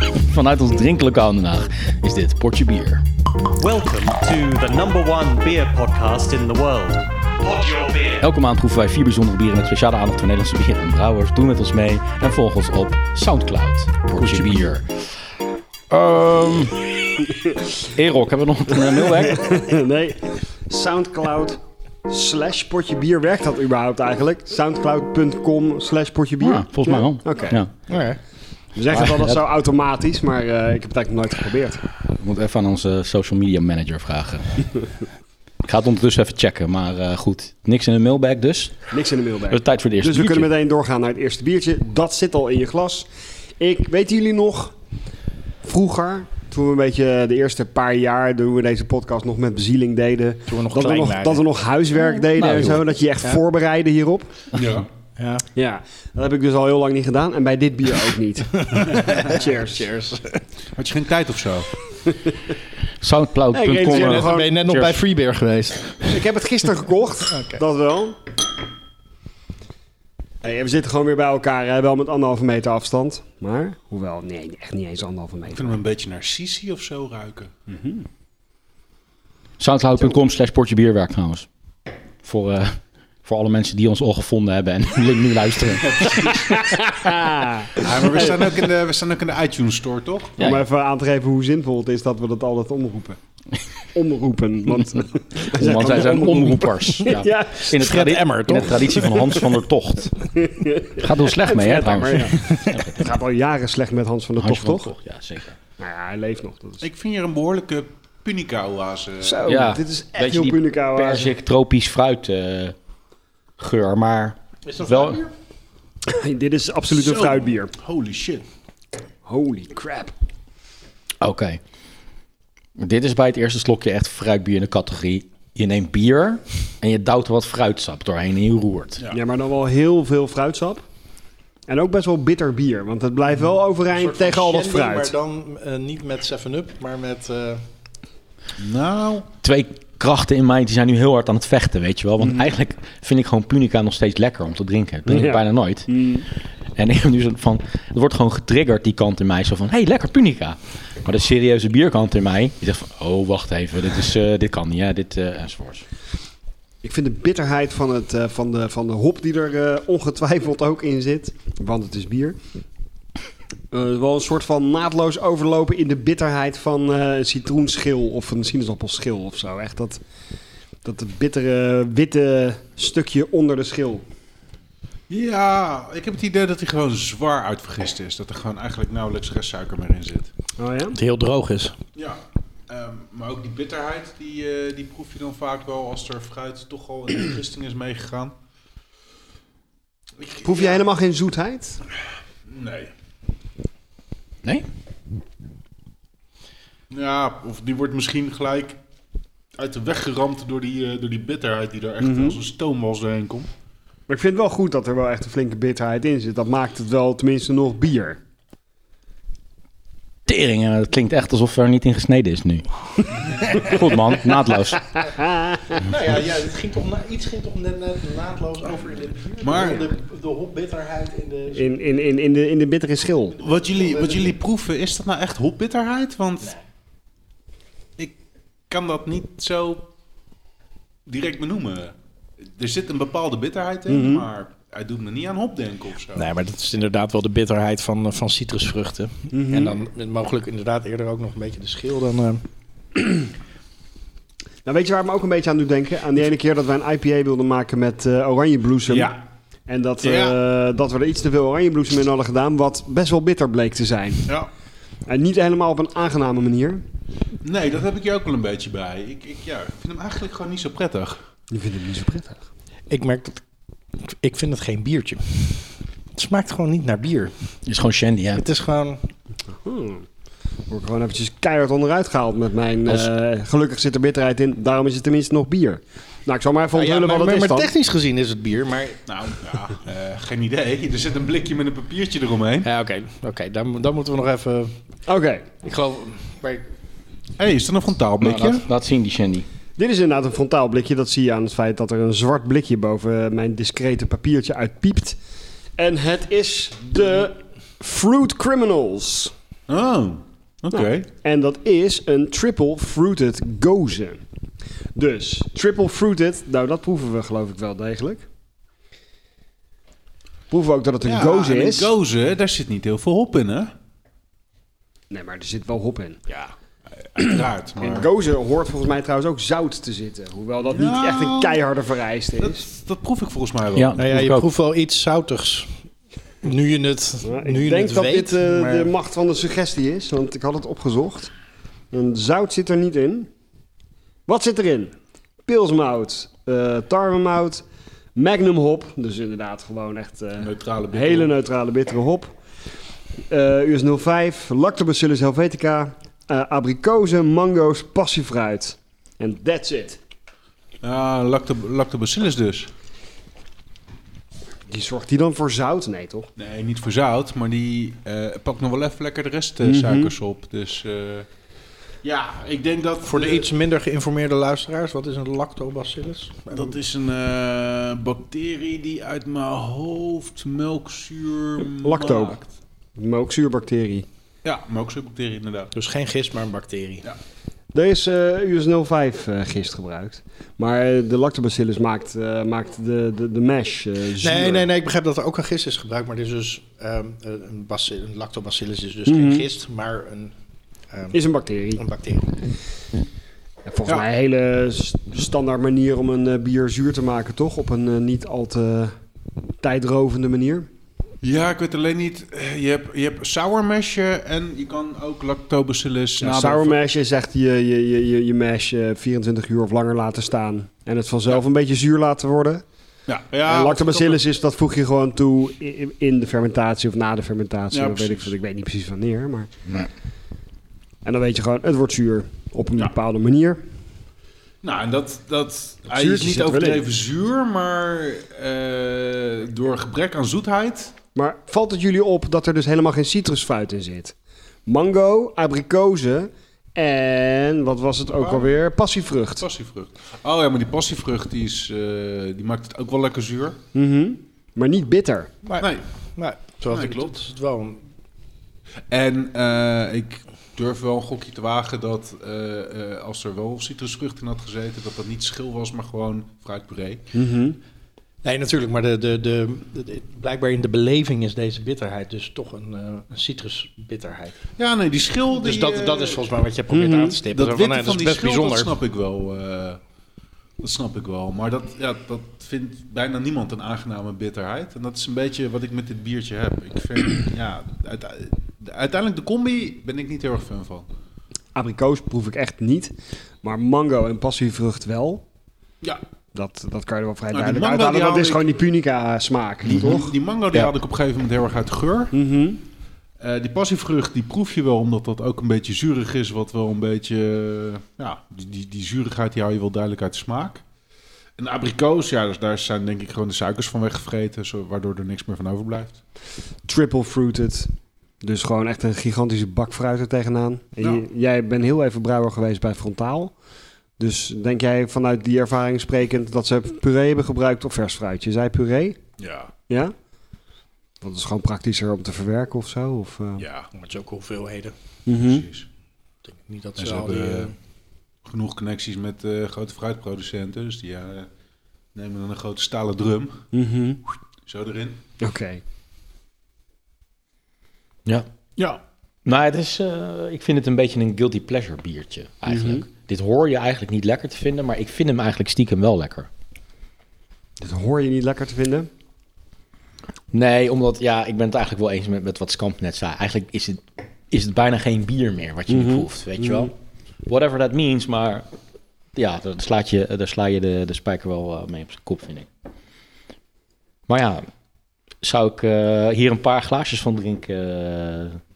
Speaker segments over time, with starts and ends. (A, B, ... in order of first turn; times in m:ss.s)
0:00.2-0:03.0 A
0:03.6-0:08.3 B
0:08.2-0:15.0 A
0:14.2-0:14.5 C
0:15.9-0:19.5 A
0:19.0-0:27.6 D
0:26.4-0:27.7 A
0:27.9-0:28.2 E
0:28.7-0:31.9 D
0:28.9-0:29.4 A
0:32.1-0:34.5 A
0:35.6-0:38.8 A
0:38.9-0:44.8 D
0:39.5-0:40.5 A
0:45.6-0:54.3 D
0:50.5-0:51.4 E
0:52.4-0:52.8 A
0:54.5-0:54.9 C
0:55.2-0:55.4 E
0:55.5-0:59.9 D
0:58.6-1:00.4 E
1:00.8-1:01.7 C
1:02.0-1:02.4 D
1:03.0-1:05.0 A
1:03.5-1:04.6 D
1:03.8-1:06.2 E
1:06.0-1:08.2 D
1:07.3-1:07.6 E
1:10.4-1:15.8 D
1:15.5-1:17.5 C
1:17.7-1:18.0 D
1:19.6-1:21.5 A
1:22.2-1:26.1 A
1:25.8-1:26.8 C
1:26.5-1:28.5 D
1:27.8-1:30.4 C
1:30.4-1:33.2 D
1:33.8-1:37.7 D
1:35.5-1:40.1 A
1:37.7-1:39.3 E
1:40.4-1:44.9 D
1:40.9-1:43.0 A
1:44.4-1:45.6 A
1:45.8-1:46.8 D
1:46.8-1:49.5 C
1:49.2-1:51.3 D
1:49.4-1:52.7 A
1:53.6-1:55.2 A
1:54.6-1:55.3 E
1:56.1-1:57.7 D
1:56.9-1:58.4 C
1:59.2-2:00.1 D
2:01.2-2:01.6 A
2:02.8-2:09.0 A
2:09.1-2:10.8 D
2:11.7-2:15.1 D
2:13.9-2:17.6 E
2:18.6-2:19.3 C
2:19.4-2:26.1 A
2:22.2-2:22.5 D
2:25.1-2:26.3 D
2:26.8-2:35.8 A
2:36.8-2:42.4 D
2:43.7-2:50.0 D
2:50.8-2:54.0 D
2:55.1-3:00.3 C
3:00.6-3:01.0 D
3:00.9-3:01.8 E
3:01.9-3:08.3 C
3:10.2-3:10.8 C
3:10.4-3:11.8 D
3:12.4-3:12.9 C
3:16.9-3:18.8 C
3:19.6-3:23.5 C
3:22.0-3:22.4 D
3:24.1-3:28.2 D
3:30.3-3:34.8 A
3:35.2-3:35.7 D
3:35.7-3:41.7 E
3:39.4-3:39.9 C
3:41.5-3:43.4 D
3:43.4-3:46.5 C
3:43.7-3:44.4 E
3:48.7-3:49.9 C
3:51.0-3:51.9 C
3:52.5-3:56.3 C
3:53.9-3:54.3 D
3:56.1-4:02.4 E
3:59.3-3:59.8 D
4:04.6-4:09.1 D
4:08.9-4:09.2 C
4:09.7-4:14.3 D
4:10.0-4:10.4 C
4:15.0-4:16.8 D
4:17.4-4:21.2 C
4:21.5-4:22.4 D
4:22.9-4:23.4 E
4:24.0-4:27.5 E
4:27.6-4:28.4 A
4:28.3-4:29.0 E
4:29.5-4:30.0 D
4:30.7-4:37.7 D
4:36.7-4:39.1 E
4:39.1-4:42.7 C
4:42.6-4:44.7 E
4:45.1-4:45.5 D
4:45.6-4:46.7 E
4:47.4-4:48.6 C
4:48.2-4:49.4 A
4:49.8-4:55.2 D
4:55.8-4:59.3 D
4:59.7-5:01.0 C
5:00.7-5:04.2 D
5:04.9-5:08.2 D
5:10.5-5:11.9 D
5:11.0-5:13.7 C
5:15.1-5:16.2 D
5:17.0-5:18.1 C
5:17.2-5:22.6 D
5:20.7-5:21.6 C
5:22.4-5:24.0 C
5:23.7-5:24.5 A
5:24.0-5:25.8 E
5:26.4-5:28.9 E
5:27.2-5:31.3 D
5:31.9-5:33.3 D
5:34.3-5:34.9 D
5:35.4-5:42.4 D
5:40.4-5:41.3 C
5:43.3-5:50.0 D
5:50.8-5:52.7 C
5:54.7-5:56.3 D
5:56.4-6:01.3 C
5:59.6-6:00.1 D
6:02.0-6:03.5 C
6:03.0-6:06.5 E
6:06.5-6:12.4 C
6:11.8-6:12.4 D
6:13.0-6:14.1 D
6:14.4-6:15.7 C
6:15.7-6:17.1 E
6:17.7-6:24.7 D
6:24.2-6:30.3 E
6:29.0-6:29.4 D
6:30.9-6:31.2 E
6:31.1-6:31.8 D
6:31.8-6:32.3 E
6:33.6-6:38.9 D
6:39.6-6:40.7 D
6:41.2-6:46.8 C
6:46.2-6:52.6 D
6:53.1-6:54.2 C
6:53.4-6:59.5 D
6:57.7-6:58.3 C
7:01.0-7:03.6 D
7:04.6-7:10.9 C
7:05.9-7:06.8 D
7:11.1-7:14.1 D
7:14.6-7:19.4 D
7:18.1-7:18.6 C
7:19.4-7:23.6 C
7:23.7-7:25.3 D
7:25.4-7:27.8 E
7:26.7-7:27.2 C
7:28.9-7:37.0 C
7:37.1-7:37.6 D
7:38.2-7:44.4 E
7:44.6-7:46.2 C
7:45.3-7:48.8 E
7:46.7-7:47.2 D
7:47.3-7:49.8 C
7:50.6-8:00.9 C
8:01.5-8:05.2 D
8:06.3-8:10.1 D
8:07.3-8:08.4 C
8:09.6-8:12.1 C
8:12.1-8:12.6 D
8:13.2-8:20.6 C
8:21.4-8:26.0 C
8:26.7-8:33.3 D
8:34.0-8:39.0 D
8:39.2-8:39.5 C
8:39.7-8:39.9 D
8:41.0-8:43.4 D
8:43.4-8:43.7 C
8:43.7-8:44.7 E
8:45.0-8:45.4 D
8:45.1-8:45.7 C
8:46.3-8:47.5 E
8:46.8-8:47.5 C
8:48.2-8:51.3 C
8:51.9-8:53.4 C
8:53.5-8:54.0 D
8:54.4-8:55.0 C
8:55.2-8:55.6 D
8:59.2-9:06.3 A
9:02.5-9:02.8 D
9:07.6-9:08.9 D
9:10.3-9:16.7 A
9:15.7-9:16.7 D
9:17.3-9:18.4 A
9:19.2-9:22.5 A
9:24.1-9:24.4 A
9:25.2-9:28.4 A